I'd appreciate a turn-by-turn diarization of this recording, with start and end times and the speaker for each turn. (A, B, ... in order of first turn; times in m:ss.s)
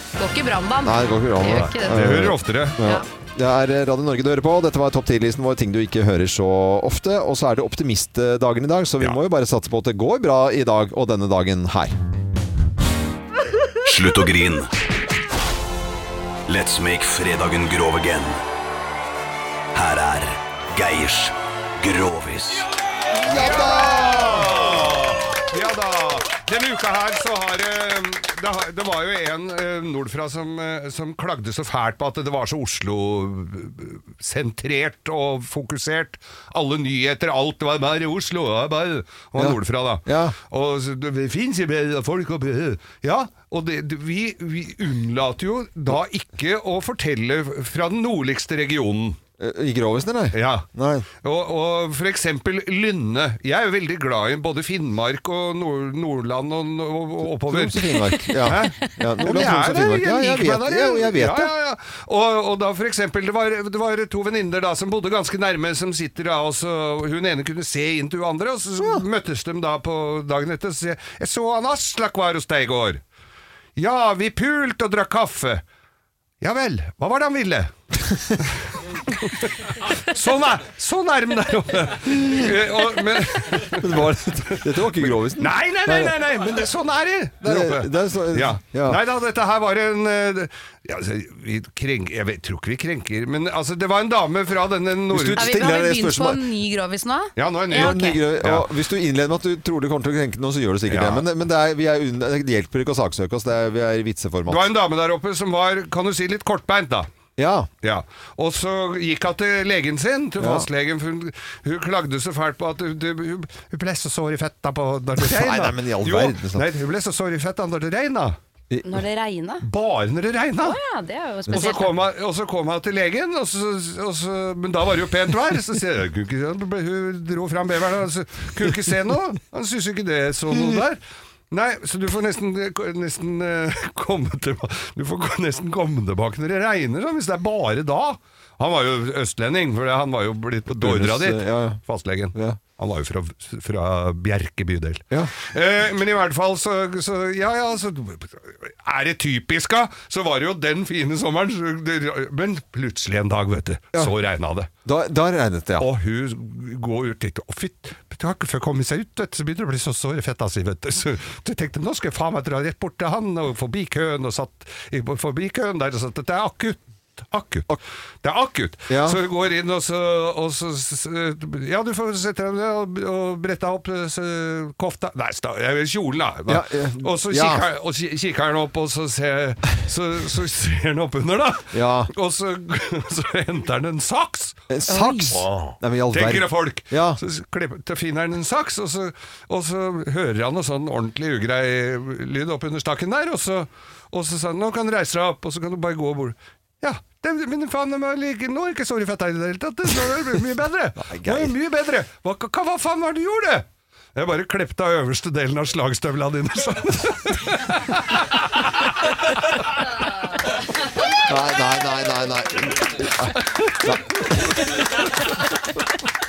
0:00.2-0:02.1 A
0:00.8-0:11.9 B
0:01.5-0:02.8 C
0:13.8-0:14.7 D
0:16.5-0:18.4 D
0:19.7-0:22.6 D
0:23.1-0:25.0 B
0:23.1-0:49.2 C
0:39.4-0:40.4 B
0:49.4-0:51.1 B
0:50.3-0:50.6 C
0:51.2-1:13.0 C
0:57.4-1:01.5 B
1:08.8-1:09.0 B
1:13.8-1:15.6 C
1:16.4-1:17.7 C
1:18.4-1:35.5 C
1:23.6-1:26.1 B
1:27.4-1:29.0 B
1:35.1-1:36.4 B
1:35.4-1:38.2 A
1:37.4-1:38.7 C
1:37.7-1:44.7 B
1:40.9-1:41.2 C
1:44.5-1:47.1 C
1:47.4-1:47.7 B
1:47.8-1:58.4 C
1:50.4-1:50.7 B
1:55.2-1:56.6 B
1:58.8-1:59.6 A
1:59.6-2:00.8 C
2:00.6-2:01.9 A
2:01.5-2:34.7 C
2:20.7-2:21.8 B
2:34.8-2:35.9 B
2:35.8-2:47.7 C
2:48.2-3:04.6 C
2:48.9-2:49.2 B
2:56.5-2:57.6 B
3:01.7-3:02.1 B
3:04.7-3:07.2 B
3:04.9-3:05.3 A
3:05.3-3:28.9 C
3:21.0-3:21.5 B
3:31.1-3:34.5 B